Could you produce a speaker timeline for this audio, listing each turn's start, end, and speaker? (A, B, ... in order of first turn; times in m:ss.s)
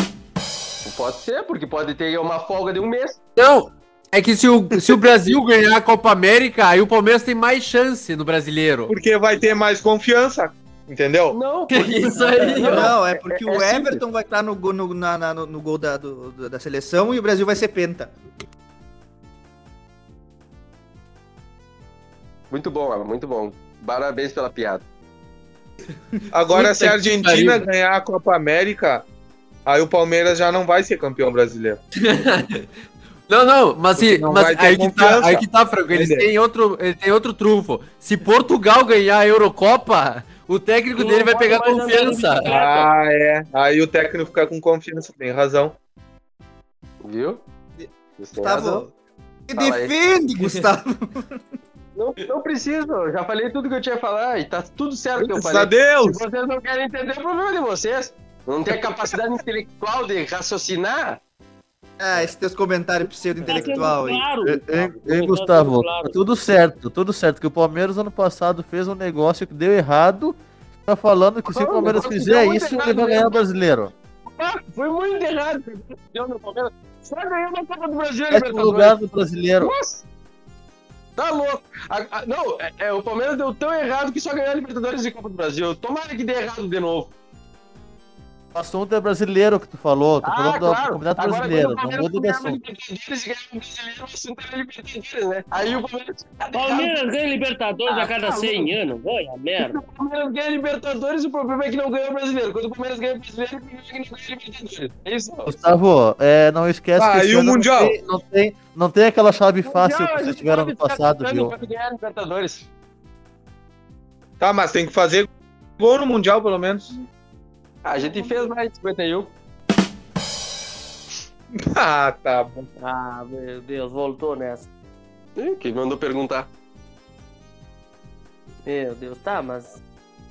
0:00.8-0:03.2 A
0:03.4-0:08.9 B
0:08.9-0:11.4 C
0:11.3-0:14.0 A
0:11.7-0:12.9 B
0:12.6-0:18.1 D
0:22.5-0:24.8 A
0:26.3-0:29.0 C
0:26.5-0:27.7 B
0:29.7-0:31.8 C
0:32.0-0:32.7 B
0:33.3-0:42.5 B
0:34.0-0:36.3 C
0:41.0-0:42.9 E
0:42.4-0:45.7 C
0:47.0-0:47.4 A
0:47.8-0:48.9 D
0:48.2-0:48.9 A
0:49.5-0:51.4 D
0:49.5-0:50.0 A
0:52.0-1:01.2 A
0:55.2-0:56.2 C
1:02.0-1:04.8 D
1:03.5-1:06.2 E
1:04.4-1:13.9 F
1:11.5-1:13.4 A
1:14.3-1:19.0 A
1:18.3-1:19.7 F
1:19.6-1:20.0 A
1:21.2-1:27.1 A
1:28.6-1:32.6 F
1:30.2-1:37.0 A
1:36.5-1:39.8 E
1:37.9-1:38.7 A
1:39.6-1:45.5 A
1:45.4-1:51.6 F
1:47.0-1:48.0 C
1:49.6-1:52.7 A
1:54.4-1:56.9 C
1:57.8-1:59.3 A
2:01.6-2:02.7 C
2:02.8-2:04.7 E
2:05.4-2:06.5 A
2:08.7-2:09.8 E